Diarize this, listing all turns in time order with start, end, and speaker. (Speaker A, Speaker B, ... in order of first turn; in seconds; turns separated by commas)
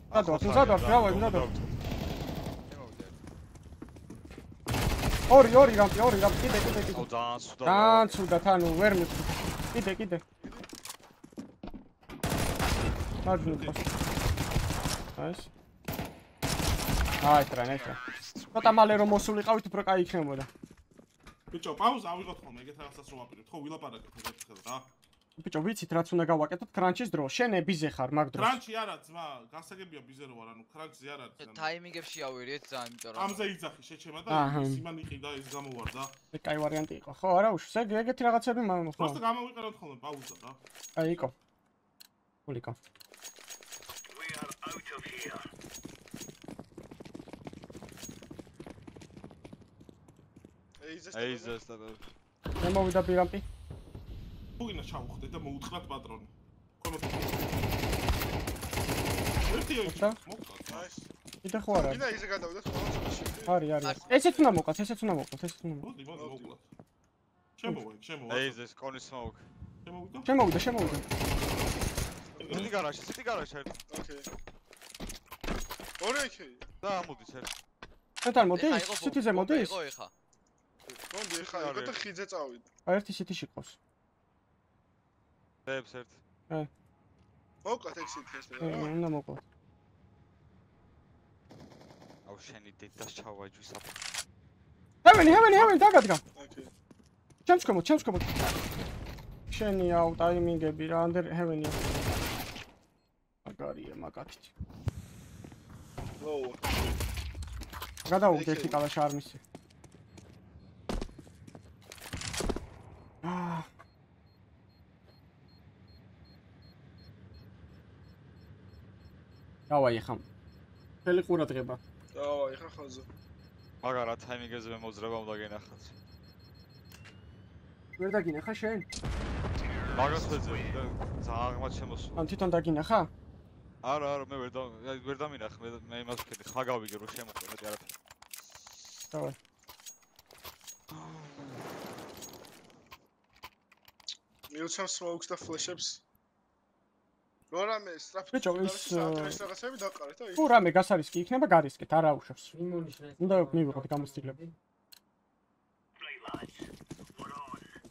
Speaker A: 0.1-1.7, Speaker B: 0.1-1.5, Speaker C: 2.7-3.2, Speaker B: 5.3-7.1, Speaker A: 6.9-8.2, Speaker B: 7.6-10.2, Speaker D: 10.4-10.7, Speaker B: 13.2-13.8, Speaker E: 13.3-14.0, Speaker B: 15.2-15.5, Speaker B: 17.2-18.0, Speaker B: 18.5-20.5, Speaker E: 21.5-24.9, Speaker B: 25.4-28.6, Speaker E: 28.4-31.7, Speaker C: 31.4-33.5, Speaker E: 33.1-36.1, Speaker B: 34.3-34.8, Speaker B: 36.3-39.2, Speaker E: 39.0-40.6, Speaker B: 41.0-41.3, Speaker B: 42.5-42.8, Speaker D: 50.8-51.6, Speaker A: 51.1-52.0, Speaker B: 52.6-53.5, Speaker E: 54.6-57.5, Speaker E: 59.5-60.9, Speaker B: 59.9-60.2, Speaker D: 60.7-61.1, Speaker B: 61.4-62.0, Speaker D: 61.7-63.6, Speaker B: 63.5-65.9, Speaker C: 63.8-64.6, Speaker E: 65.8-66.7, Speaker D: 66.1-66.5, Speaker E: 67.6-68.6, Speaker A: 68.3-69.5, Speaker E: 69.8-70.3, Speaker B: 70.3-71.0, Speaker D: 72.3-72.7, Speaker E: 72.4-72.8, Speaker A: 72.5-73.8, Speaker D: 73.9-74.3, Speaker D: 76.0-76.7, Speaker A: 76.8-77.5, Speaker B: 78.2-79.8, Speaker C: 78.5-80.1, Speaker D: 80.9-82.7, Speaker A: 81.4-82.0, Speaker B: 82.9-83.8, Speaker A: 85.7-86.2, Speaker D: 87.6-88.9, Speaker B: 88.6-89.4, Speaker A: 92.3-94.0, Speaker B: 95.0-96.2, Speaker D: 96.3-96.7, Speaker B: 97.5-98.5, Speaker B: 99.5-101.8, Speaker B: 103.5-104.5, Speaker D: 106.2-106.6, Speaker B: 108.1-109.4, Speaker D: 108.2-108.8, Speaker B: 113.2-113.7, Speaker B: 119.7-120.2, Speaker B: 121.0-121.8, Speaker D: 122.1-123.1, Speaker A: 123.8-126.0, Speaker B: 128.0-128.9, Speaker A: 129.9-132.3, Speaker B: 132.2-133.1, Speaker A: 133.8-137.9, Speaker A: 140.9-141.6, Speaker D: 144.5-146.0, Speaker D: 147.5-150.5, Speaker B: 148.3-149.4, Speaker B: 150.4-152.6, Speaker F: 152.5-154.5, Speaker B: 153.2-154.4